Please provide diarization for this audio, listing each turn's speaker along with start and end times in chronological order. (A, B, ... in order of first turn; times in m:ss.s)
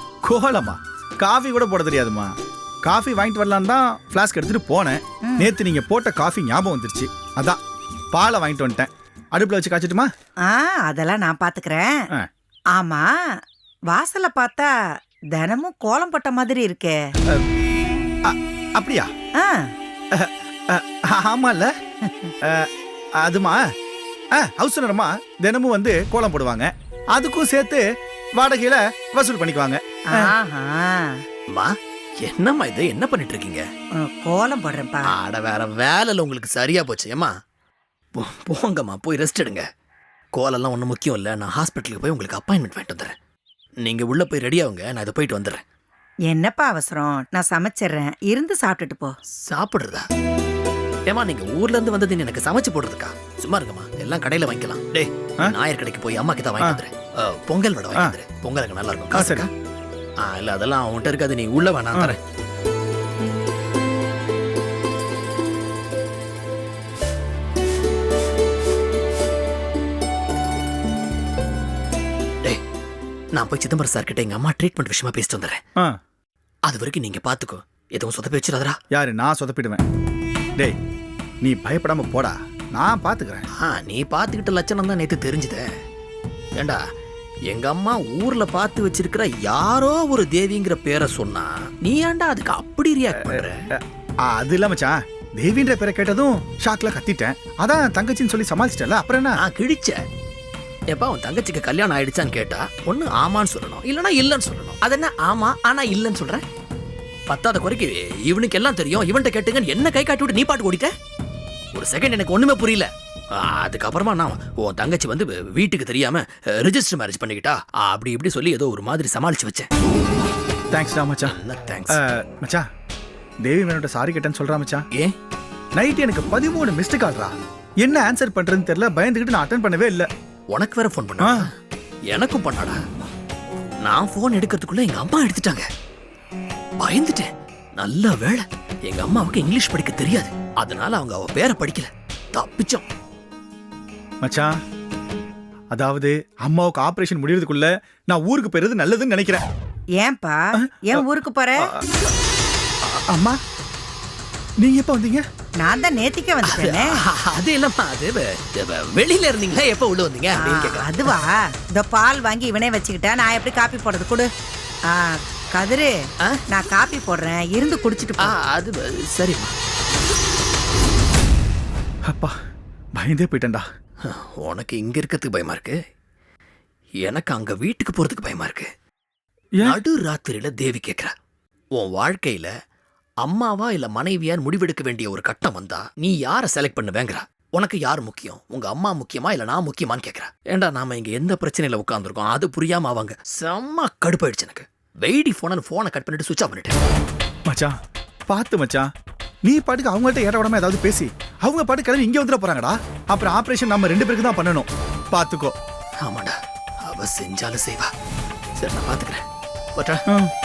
0:00.2-0:02.3 A
0:02.8-0:07.6 A
0:05.2-0:05.5 B
0:08.1-0:10.1 A
0:10.4-0:12.0 B
0:12.8-0:13.1 B
0:13.9-0:14.7 B
0:15.3-0:17.0 B
0:18.2-0:19.1 A
0:19.4-0:19.7 B
0:20.1-0:21.7 A
0:22.1-0:22.3 B
0:23.2-0:23.6 A
0:24.4-0:27.8 A
0:28.4-0:30.3 A
0:30.1-0:31.2 B
0:31.5-0:33.6 C
0:34.0-0:35.1 B
0:35.1-0:37.3 C
0:38.1-0:39.6 C
0:40.3-0:43.1 C
0:43.8-0:45.6 C
0:46.3-0:49.1 B
0:49.4-0:50.0 C
0:51.1-0:59.5 C
0:59.1-0:59.5 A
1:00.2-1:02.2 C
1:13.3-1:15.6 C
1:16.6-1:18.8 C
1:18.9-1:19.8 A
1:21.4-1:23.4 A
1:23.6-1:25.6 C
1:27.5-1:33.6 C
1:33.2-1:39.4 A
1:39.4-1:39.9 C
1:40.9-1:46.4 C
1:47.3-1:50.9 C
1:51.7-1:59.7 C
2:00.7-2:01.4 A
2:01.2-2:02.0 C
2:01.9-2:02.6 A
2:03.4-2:04.8 A
2:05.8-2:10.1 A
2:10.5-2:11.5 C
2:11.2-2:11.5 A
2:12.1-2:12.8 C
2:13.8-2:15.6 C
2:16.8-2:17.3 C
2:17.8-2:22.8 C
2:24.2-2:24.5 A
2:25.7-2:29.4 A
2:30.0-2:31.6 B
2:30.6-2:31.0 A
2:33.1-2:33.4 A
2:34.6-2:35.2 A
2:35.6-2:37.0 B
2:36.5-2:41.1 C
2:40.3-2:44.3 B
2:44.9-2:45.9 B
2:46.5-2:48.4 B
2:48.2-2:49.5 C
2:52.1-2:52.3 A
2:53.0-2:53.6 A
2:54.0-2:55.7 C
2:57.0-2:58.7 C
2:59.6-3:01.1 C
3:01.7-3:02.5 C
3:03.2-3:16.8 C
3:18.3-3:18.9 A
3:19.4-3:25.6 A
3:26.0-3:27.9 C
3:28.6-3:29.2 C
3:29.7-3:30.0 C